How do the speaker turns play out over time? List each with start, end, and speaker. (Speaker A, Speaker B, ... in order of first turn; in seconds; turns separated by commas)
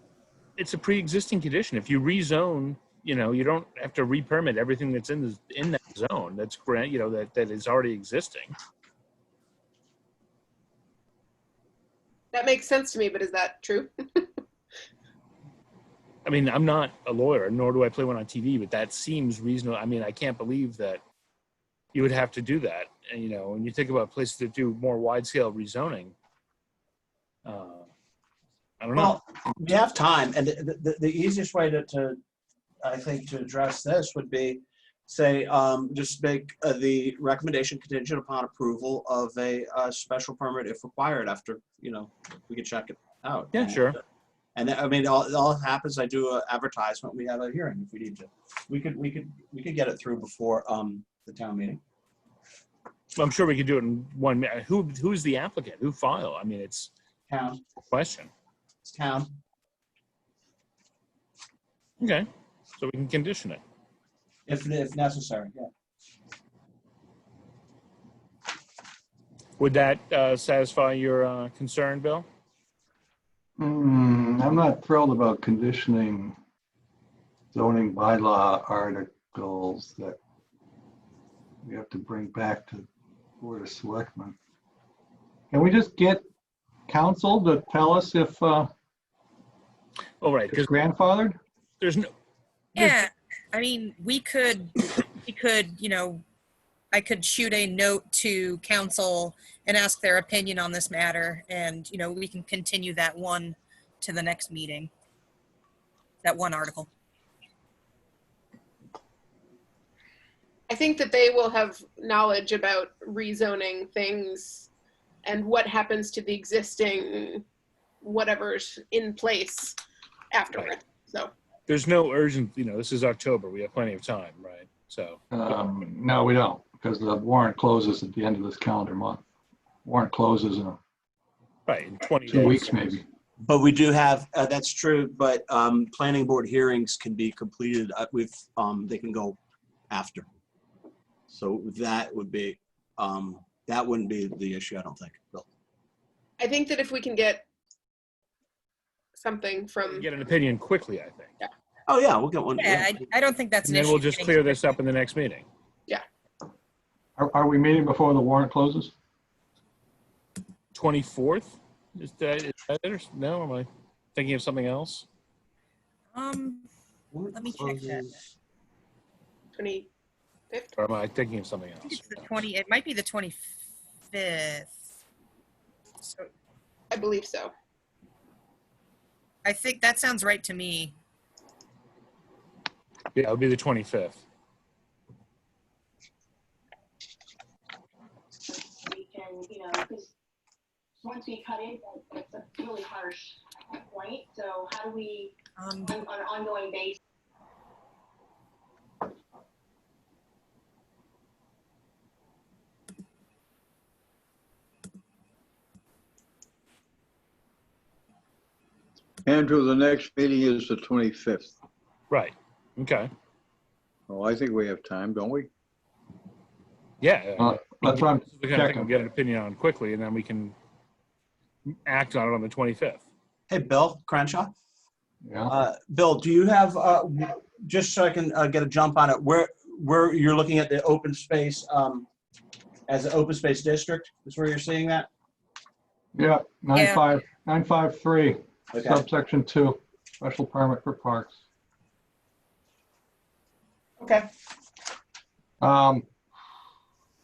Speaker A: 0.6-8.5, Speaker B: 12.3-14.3, Speaker A: 16.2-21.0, Speaker A: 21.9-26.1, Speaker A: 27.4-27.9, Speaker A: 28.8-29.2, Speaker C: 28.9-32.2, Speaker C: 32.8-43.9, Speaker A: 43.5-44.0, Speaker C: 44.5-51.8, Speaker A: 53.1-56.9, Speaker C: 57.3-57.6, Speaker A: 57.9-58.3, Speaker C: 58.8-59.3, Speaker A: 62.0-62.3, Speaker A: 62.8-63.6, Speaker C: 64.5-65.7, Speaker A: 69.6-72.3, Speaker D: 73.6-76.3, Speaker D: 77.5-80.2, Speaker D: 81.6-82.8, Speaker D: 83.4-84.3, Speaker D: 85.5-86.2, Speaker D: 86.9-88.7, Speaker A: 90.2-90.7, Speaker D: 90.5-91.4, Speaker A: 91.8-92.1, Speaker E: 92.7-96.2, Speaker E: 96.9-104.9, Speaker E: 106.2-106.9, Speaker B: 110.7-114.7, Speaker B: 115.2-117.4, Speaker B: 118.0-119.8, Speaker B: 120.3-121.3, Speaker A: 121.7-125.2, Speaker D: 125.3-129.2, Speaker D: 129.8-130.8, Speaker A: 131.7-133.0, Speaker D: 132.3-133.0, Speaker C: 133.4-139.4, Speaker C: 139.9-140.2, Speaker C: 141.3-145.4, Speaker B: 146.4-147.4, Speaker B: 149.1-150.1, Speaker A: 149.9-151.3, Speaker C: 151.9-153.0, Speaker E: 152.6-154.8, Speaker A: 153.6-155.5, Speaker D: 157.2-158.9, Speaker A: 160.7-165.1, Speaker E: 166.1-166.7, Speaker C: 167.1-168.1, Speaker E: 167.3-168.2, Speaker B: 169.5-169.9, Speaker A: 170.8-172.3, Speaker E: 171.8-173.4, Speaker E: 174.1-174.7, Speaker E: 176.0-176.3, Speaker B: 176.9-177.5, Speaker E: 179.4-180.9, Speaker A: 183.1-184.2, Speaker F: 188.5-190.1, Speaker F: 191.0-197.0, Speaker E: 195.6-196.0, Speaker G: 209.2-211.6, Speaker A: 212.1-213.1, Speaker G: 214.1-215.5, Speaker A: 217.0-220.6, Speaker D: 217.4-218.9, Speaker A: 221.8-223.0, Speaker C: 223.5-224.5, Speaker D: 225.2-225.5, Speaker C: 225.5-232.1, Speaker C: 232.9-235.1, Speaker D: 236.1-241.3, Speaker E: 236.7-237.0, Speaker C: 238.7-239.0, Speaker C: 244.0-244.2, Speaker D: 245.6-246.0